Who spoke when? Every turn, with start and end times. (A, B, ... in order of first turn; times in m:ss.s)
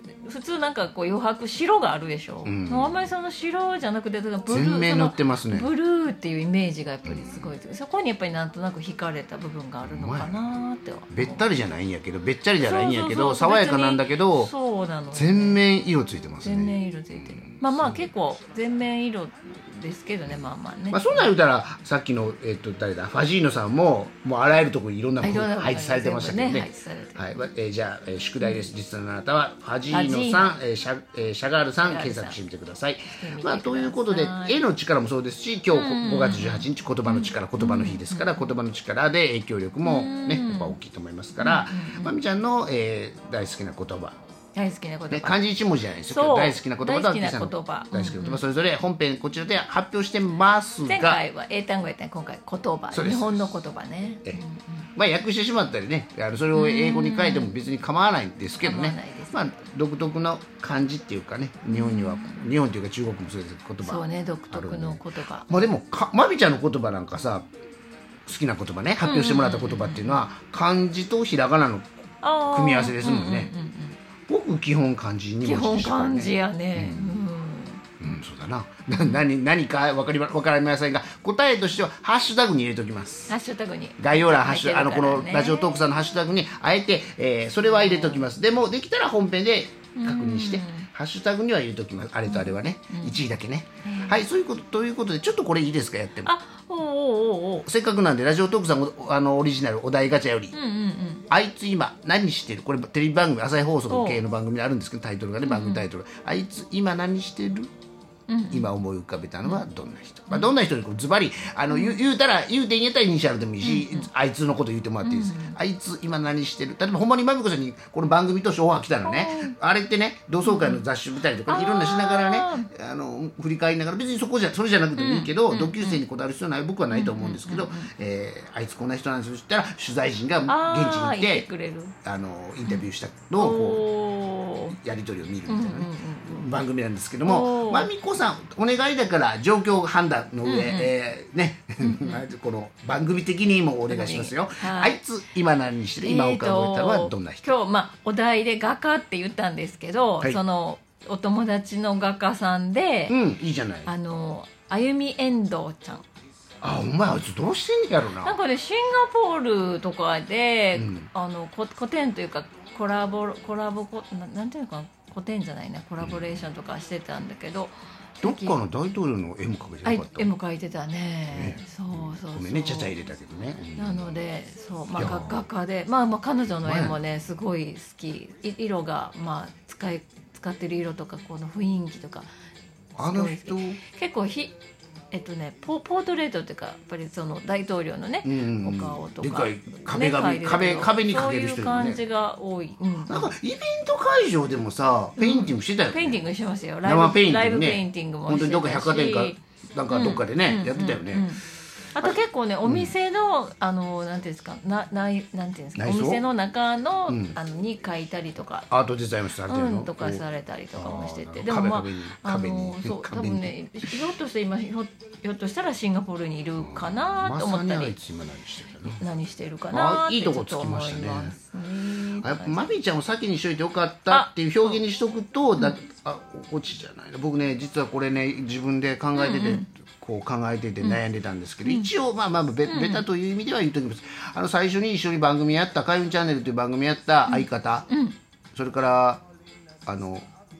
0:00.2-0:11.4 A
0:02.4-0:03.1 B
0:04.5-0:05.7 B
0:07.0-0:07.5 B
0:09.8-0:10.6 B
0:11.1-0:14.5 B
0:12.6-0:15.6 A
0:15.1-0:18.0 B
0:16.4-0:21.3 A
0:20.9-0:44.2 B
0:25.2-0:27.4 A
0:29.9-0:30.6 A
0:31.8-0:32.4 A
0:33.2-0:34.6 A
0:35.7-0:38.4 A
0:39.8-0:40.8 A
0:41.4-0:42.2 A
0:44.5-0:45.4 A
0:45.1-0:51.2 B
0:46.0-0:48.4 A
0:50.8-0:54.9 A
0:52.9-0:53.5 B
0:55.0-1:07.5 B
0:56.5-0:57.5 A
0:58.6-0:59.5 A
1:01.7-1:02.5 A
1:03.8-1:05.5 A
1:08.2-1:12.0 B
1:09.0-1:10.2 A
1:12.2-1:14.0 A
1:12.5-1:13.5 B
1:14.3-1:17.2 B
1:15.4-1:17.8 A
1:18.0-1:23.4 B
1:18.9-1:19.2 A
1:23.3-1:25.8 A
1:24.0-1:36.3 B
1:27.6-1:28.2 A
1:29.9-1:30.9 A
1:32.2-1:33.2 A
1:33.8-1:34.2 A
1:36.2-1:37.6 A
1:37.6-1:40.6 B
1:40.5-1:41.2 A
1:41.3-1:47.7 B
1:43.9-1:44.2 A
1:45.4-1:45.8 A
1:48.3-1:48.7 A
1:48.5-2:11.5 B
1:51.7-1:52.0 A
1:53.6-1:54.1 A
1:55.0-1:55.6 A
1:59.0-1:59.5 A
2:00.4-2:00.8 A
2:01.4-2:02.7 A
2:05.0-2:06.0 A
2:06.9-2:07.9 A
2:10.5-2:11.9 A
2:12.0-2:13.8 B
2:12.6-2:14.8 A
2:14.7-2:27.6 B
2:15.5-2:16.5 A
2:17.2-2:17.9 A
2:20.4-2:20.9 A
2:21.8-2:22.2 A
2:23.9-2:25.0 A
2:26.0-2:33.2 A
2:33.1-2:33.9 B
2:33.8-2:36.0 A
2:36.6-2:38.4 B
2:38.2-2:48.6 A
2:40.8-2:41.1 B
2:46.0-2:46.3 B
2:48.2-2:50.3 B
2:49.8-2:52.9 A
2:51.3-2:54.2 B
2:53.8-3:02.3 A
2:55.0-2:55.4 B
2:56.6-2:57.0 B
3:03.0-3:03.8 B
3:03.0-3:04.6 A
3:05.1-3:13.3 A
3:08.2-3:12.0 B
3:13.1-3:16.2 B
3:15.2-3:21.4 A
3:16.8-3:21.4 B
3:21.9-3:28.7 A
3:22.0-3:22.9 B
3:25.8-3:26.2 B
3:27.1-3:27.4 B
3:28.7-3:30.2 B
3:29.4-3:38.0 A
3:30.8-3:34.0 B
3:36.6-3:39.0 B
3:38.8-3:42.7 A
3:39.7-3:41.4 B
3:42.2-3:57.9 B
3:44.1-3:44.8 A
3:49.1-3:49.6 A
3:51.6-3:51.9 A
3:52.6-3:53.0 A
3:57.3-3:58.2 A
3:58.5-3:59.2 B
3:59.8-4:00.3 B